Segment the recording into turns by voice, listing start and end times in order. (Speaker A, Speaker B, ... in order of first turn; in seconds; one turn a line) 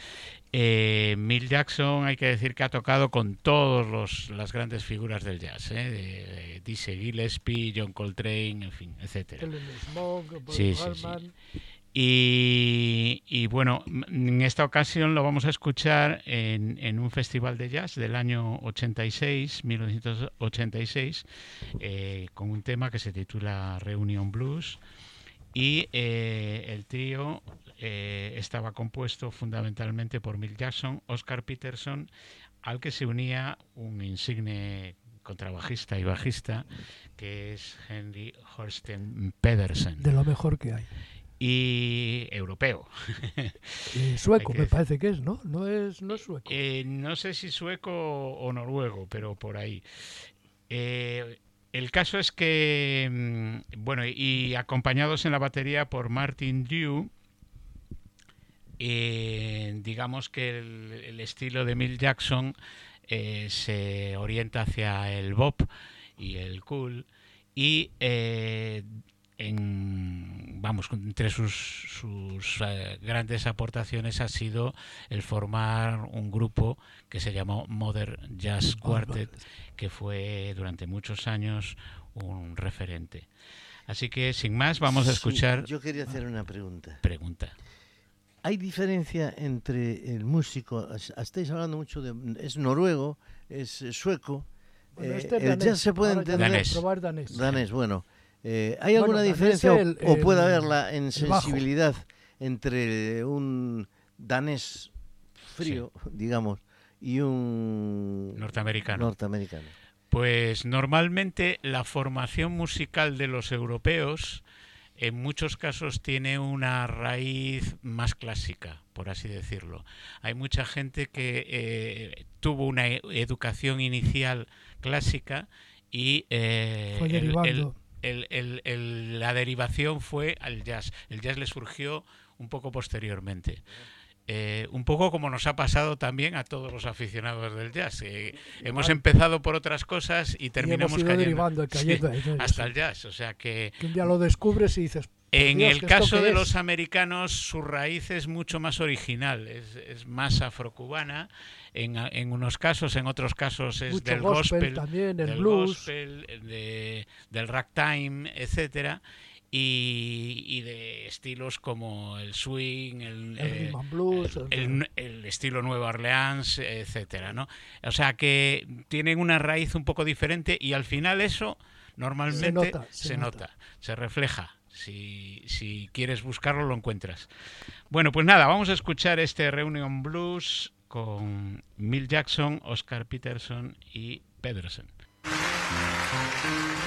Speaker A: 0.5-9.5
Speaker B: 9.4-11.3
Speaker A: 10.5-11.2
Speaker A: 11.9-21.2
Speaker A: 21.8-24.8
Speaker A: 25.5-32.1
Speaker A: 32.6-40.1
Speaker B: 40.0-40.9
Speaker A: 41.4-44.8
Speaker B: 43.9-46.5
Speaker A: 46.1-49.8
Speaker A: 50.7-57.1
Speaker A: 58.8-62.5
Speaker A: 63.1-65.7
Speaker A: 66.2-83.3
Speaker B: 78.8-79.4
Speaker A: 83.9-85.7
Speaker C: 84.8-87.0
Speaker A: 87.0-87.5
Speaker C: 88.4-94.5
Speaker B: 95.0-97.4
Speaker C: 95.0-96.7
Speaker A: 96.3-96.8
Speaker C: 97.3-109.7
Speaker B: 99.0-101.6
Speaker A: 108.3-109.1
Speaker A: 110.1-114.4
Speaker A: 115.0-133.6
Speaker B: 126.9-127.7
Speaker A: 134.3-144.1
Speaker B: 138.6-139.0
Speaker B: 140.6-142.7
Speaker B: 143.8-146.5
Speaker A: 145.3-177.3
Speaker B: 153.9-155.9
Speaker B: 163.4-164.8
Speaker B: 172.3-173.4
Speaker A: 177.9-184.9